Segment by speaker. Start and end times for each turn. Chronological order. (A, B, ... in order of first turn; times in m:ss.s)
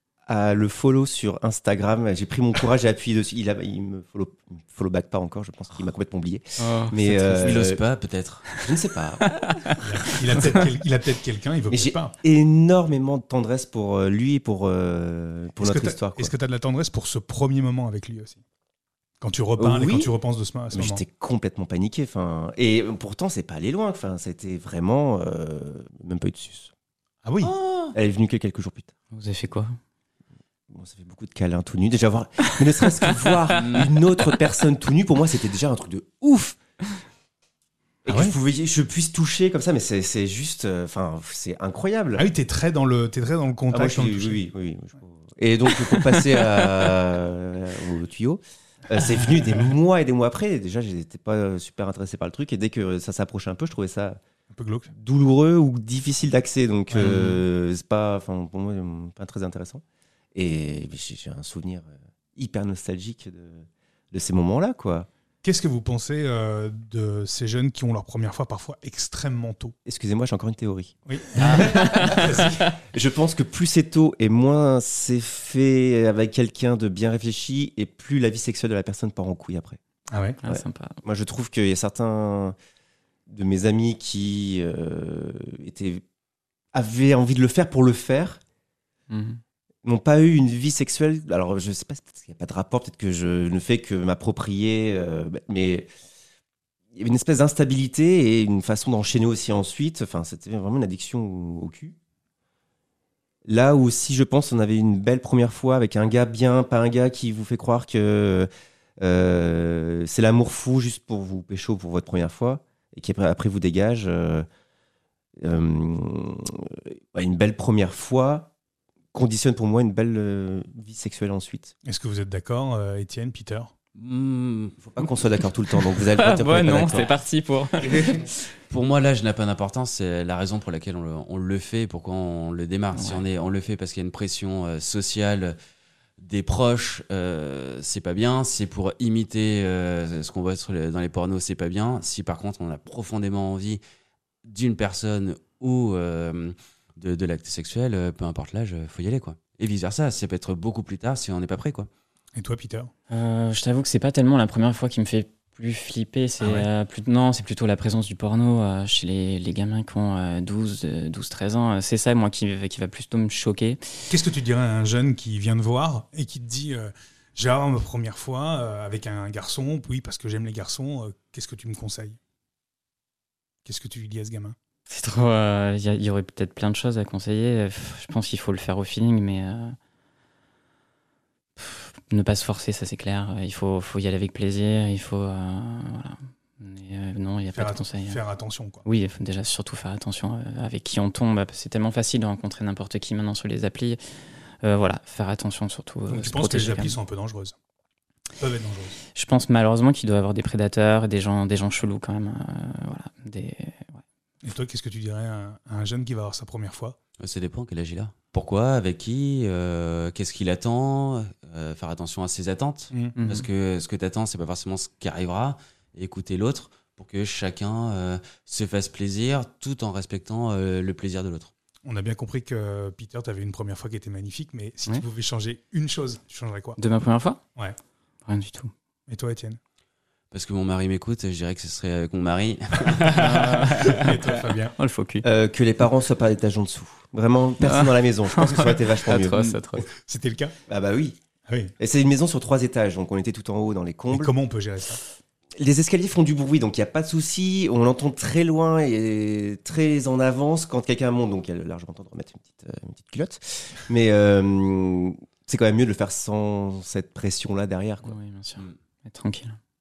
0:00.3-0:07.8 A
0:06.6-0:07.0 B
0:07.4-0:08.5 C
0:08.6-0:09.3 A
0:09.3-0:09.8 B
0:09.8-0:12.1 D
0:11.7-0:16.3 A
0:15.6-0:18.4 D
0:19.2-0:21.0 D
0:19.6-0:20.1 A
0:20.7-0:26.7 A
0:27.2-0:27.5 D
0:27.4-0:27.9 C
0:27.9-0:28.9 A
0:29.1-0:29.7 B
0:30.7-0:36.6 A
0:33.5-0:33.9 C
0:38.0-0:42.2 A
0:38.1-0:38.4 D
0:42.2-0:44.4 D
0:43.7-0:54.2 A
0:54.5-0:54.9 D
0:54.9-0:59.8 A
0:56.9-0:57.3 D
0:57.0-0:57.4 B
1:00.4-1:05.1 A
1:05.4-1:09.7 D
1:09.8-1:19.8 A
1:11.1-1:12.7 D
1:11.4-1:11.8 C
1:11.7-1:12.2 B
1:20.1-1:20.4 D
1:20.4-1:21.0 B
1:20.5-1:22.6 A
1:23.3-1:26.0 A
1:26.7-1:28.4 A
1:29.1-1:29.4 B
1:29.8-1:35.9 A
1:36.9-1:42.0 A
1:43.5-1:48.5 A
1:49.0-1:54.5 A
1:55.4-1:58.5 A
1:59.1-2:01.7 A
2:01.9-2:03.7 D
2:04.0-2:04.8 C
2:04.8-2:07.1 A
2:06.0-2:08.3 B
2:07.8-2:08.2 A
2:08.7-2:15.6 C
2:12.9-2:13.2 B
2:16.2-2:23.8 C
2:24.4-2:31.9 C
2:32.4-2:32.9 D
2:33.1-2:43.8 B
2:36.4-2:36.7 D
2:44.1-2:52.2 D
2:53.6-2:54.6 D
2:54.9-2:59.8 B
3:01.6-3:08.2 B
3:07.5-3:08.8 D
3:08.9-3:14.0 B
3:14.6-3:17.0 B
3:16.1-3:17.5 D
3:18.4-3:19.0 D
3:19.2-3:24.0 B
3:24.4-3:27.0 D
3:27.2-3:41.5 C
3:33.2-3:33.5 B
3:41.8-3:46.8 D
3:46.8-3:47.4 B
3:48.3-3:48.7 B
3:49.1-3:49.6 D
3:50.3-3:54.0 C
3:53.1-3:55.2 B
3:53.7-3:54.7 D
3:55.2-3:59.6 A
3:57.6-3:59.9 B
3:59.9-4:00.6 D
4:00.7-4:01.2 A
4:01.8-4:04.3 A
4:04.1-4:05.0 D
4:05.6-4:18.2 A
4:18.0-4:19.6 B